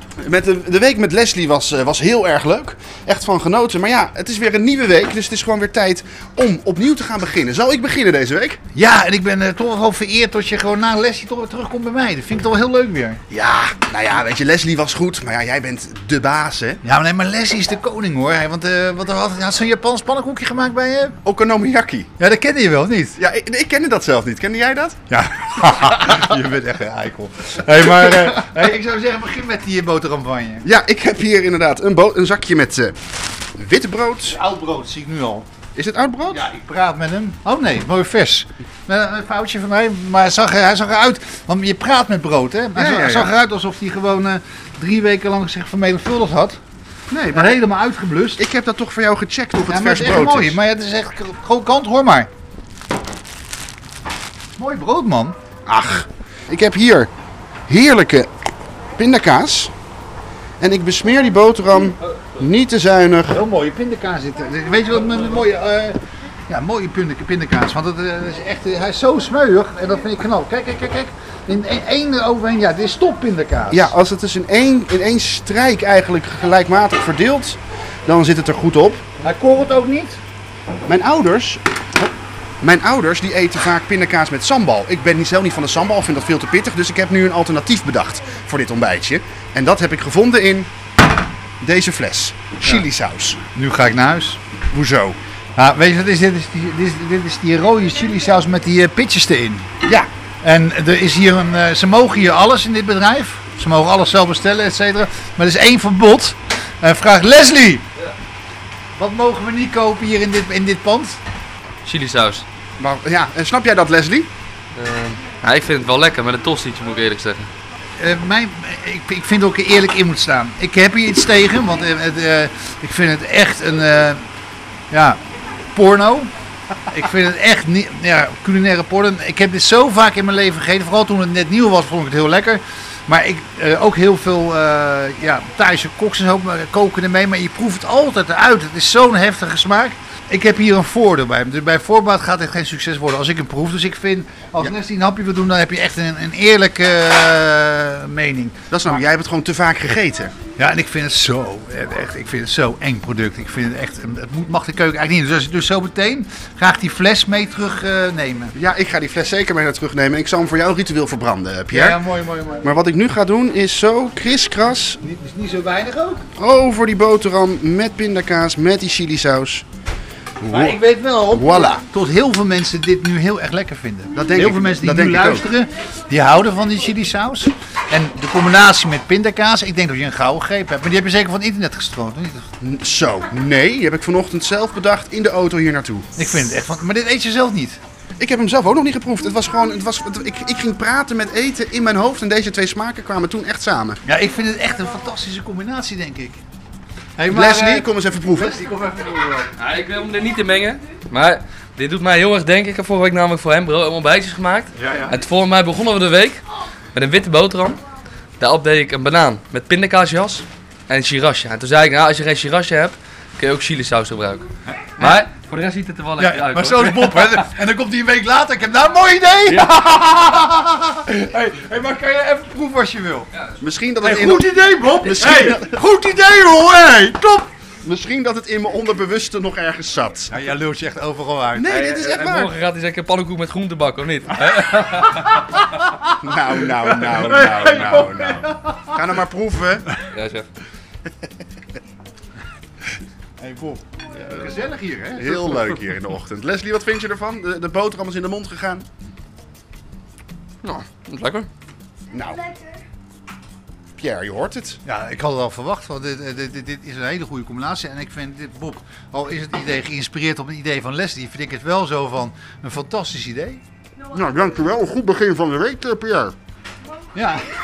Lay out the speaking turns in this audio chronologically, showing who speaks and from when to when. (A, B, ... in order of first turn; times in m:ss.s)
0:00.2-0:08.6 A
0:08.7-0:13.2 B
0:13.3-0:16.8 A
0:16.8-0:21.2 B
0:21.2-0:22.1 A
0:22.2-0:23.2 B
0:23.2-0:25.0 A
0:25.1-0:30.6 B
0:30.6-0:33.0 A
0:33.6-0:34.4 A
0:34.2-0:35.5 B
0:35.8-0:36.4 A
0:36.3-0:46.6 B
0:42.8-0:43.3 A
0:47.1-0:47.6 A
0:47.3-0:48.4 B
0:48.4-0:50.6 A
0:49.6-0:52.3 B
0:54.6-0:55.4 B
0:55.7-0:57.1 A
0:57.7-0:58.3 A
0:59.0-0:59.7 A
1:00.6-1:03.4 A
1:03.3-1:13.9 B
1:13.7-1:19.0 A
1:19.2-1:20.2 B
1:20.9-1:30.7 A
1:31.6-1:33.4 A
1:33.5-1:34.4 B
1:34.7-1:35.2 A
1:35.6-1:39.7 B
1:40.4-1:47.8 B
1:49.0-1:51.2 B
1:51.8-1:52.4 C
1:52.8-1:54.3 A
1:54.8-1:57.5 C
1:58.0-2:04.2 B
2:04.9-2:05.2 B
2:05.7-2:06.3 B
2:06.9-2:29.0 B
2:28.7-2:30.4 A
2:30.6-2:38.5 B
2:38.5-2:42.0 A
2:41.7-2:42.7 B
2:42.6-2:45.0 A
2:45.0-2:46.2 B
2:46.4-2:49.6 A
2:50.4-2:50.8 A
2:50.5-3:02.5 B
2:51.3-2:51.8 A
2:54.2-2:55.5 A
3:02.6-3:06.1 A
3:06.2-3:07.8 B
3:08.2-3:14.0 A
3:14.0-3:16.4 B
3:17.2-3:17.9 B
3:17.3-3:18.6 A
3:18.5-3:19.5 B
3:19.6-3:26.4 C
3:24.8-3:25.2 B
3:26.9-3:27.8 C
3:28.4-3:34.5 C
3:34.7-3:35.2 B
3:35.0-3:37.4 C
3:36.2-3:43.3 B
3:43.6-3:45.7 A
3:44.0-3:47.5 B
3:47.8-3:50.4 A
3:50.3-3:51.7 B
3:51.5-3:52.5 A
3:51.7-3:55.5 C
3:55.6-3:59.0 B
3:56.2-3:59.9 A
4:00.1-4:00.5 C
4:03.4-4:05.8 B
4:05.2-4:08.9 A
4:10.6-4:11.5 C
4:12.1-4:12.5 A
4:14.0-4:14.8 A
4:14.8-4:23.6 B
4:24.1-4:26.4 A
4:27.2-4:27.5 B